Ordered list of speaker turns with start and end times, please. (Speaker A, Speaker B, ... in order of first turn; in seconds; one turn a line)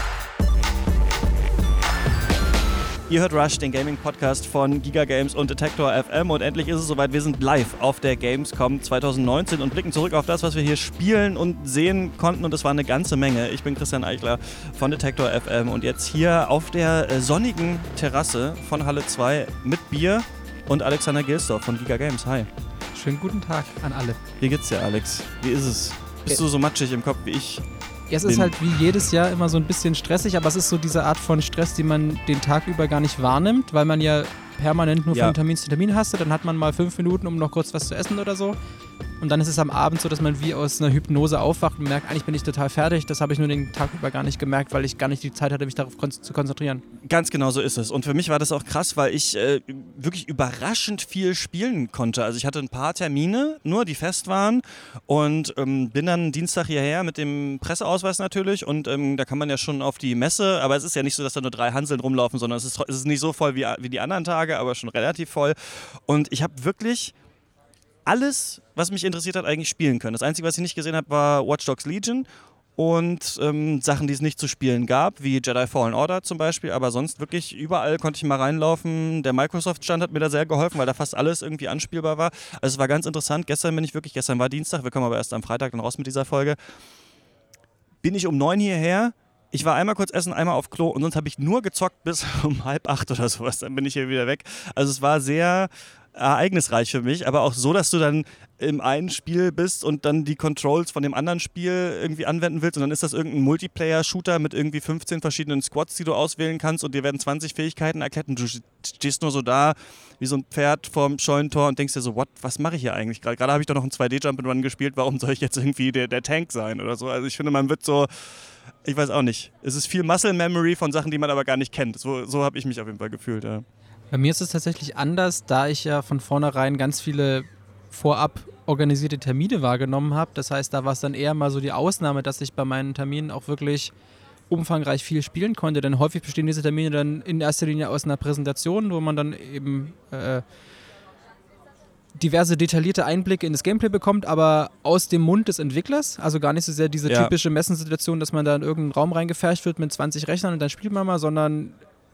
Speaker A: 3.1-22.5
Speaker B: 22.9-24.2
Speaker A: 24.4-27.6
Speaker B: 28.1-38.6
Speaker A: 28.2-28.6
Speaker B: 39.2-46.8
Speaker A: 47.0-67.1
Speaker A: 68.1-86.6
Speaker A: 88.0-118.3
Speaker A: 118.8-123.7
Speaker B: 124.1-133.9
Speaker B: 134.5-140.4
Speaker B: 142.2-151.8
Speaker A: 147.1-147.3